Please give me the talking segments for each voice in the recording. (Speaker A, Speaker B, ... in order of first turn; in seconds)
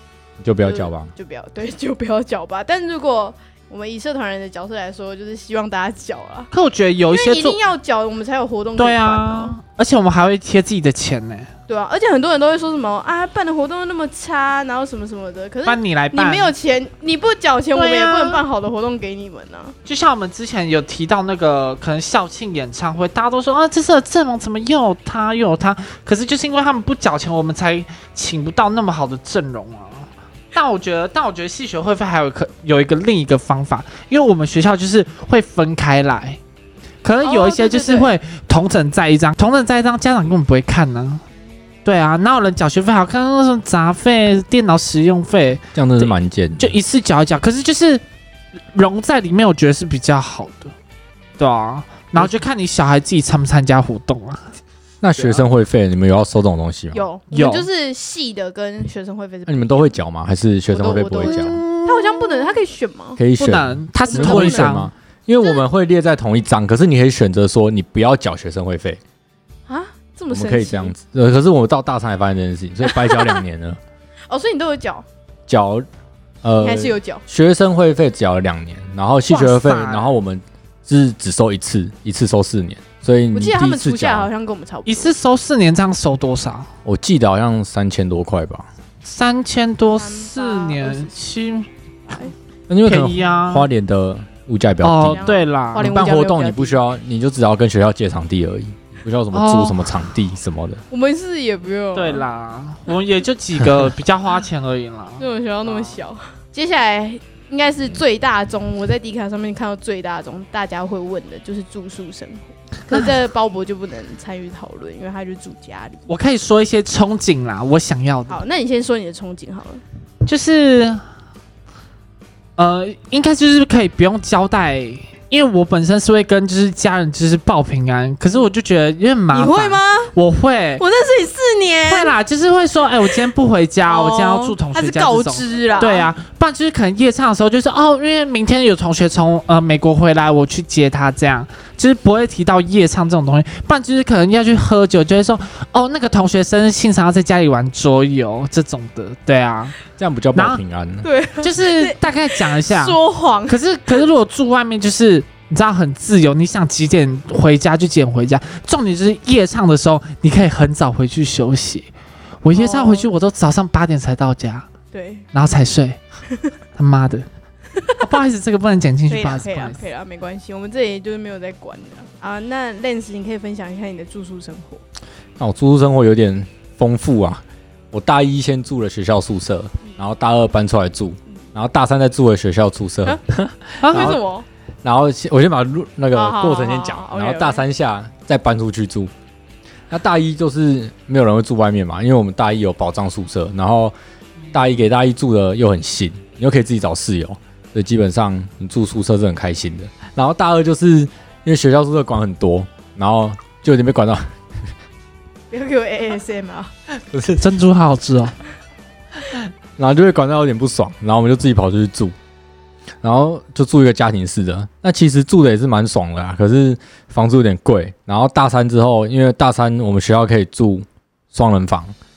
Speaker A: 0.4-1.1, 45.7-46.7, 55.0-57.0, 59.5-61.6, 63.2-69.0, 70.3-73.8, 75.5-75.8, 76.4-84.3, 86.8-88.7, 92.7-100.8, 150.0-151.1, 175.4-184.2, 184.8-189.1, 189.9-193.9, 194.5-204.2, 206.9-207.4, 209.3-212.1, 213.0-221.9
Speaker B: 0.6-6.5, 7.1-9.6, 11.7-19.8, 37.2-38.1, 56.9-60.0, 60.7-63.2, 64.0-64.8, 69.7-70.9, 72.8-73.4, 74.3-75.0, 76.6-77.2, 83.3-85.1, 89.9-91.1, 95.0-96.8, 100.9-102.2, 105.2-116.1, 118.3-119.8, 129.3-130.1, 130.8-132.2, 133.9-136.1, 151.0-154.0, 162.5-163.1, 164.9-165.3, 169.1-174.8, 183.9-184.4, 186.1-187.7, 205.5-206.7
Speaker C: 6.5-7.6, 8.8-11.5, 15.7-16.5, 17.7-18.4, 19.9-36.4, 37.0-41.2, 41.8-48.0, 48.7-50.7, 51.4-54.5, 55.1-55.5, 57.3-57.7, 61.2-62.6, 63.4-64.9, 79.3-80.1, 84.8-86.7, 89.0-91.7, 92.8-93.7, 94.8-96.0, 99.3-99.9, 101.9-106.0, 116.1-118.4, 120.2-121.0, 122.6-130.8, 131.9-149.8, 150.3-150.6, 151.4-161.9, 162.4-164.7, 165.3-166.0, 166.7-167.3, 168.0-169.8, 183.8-184.1, 207.4-208.3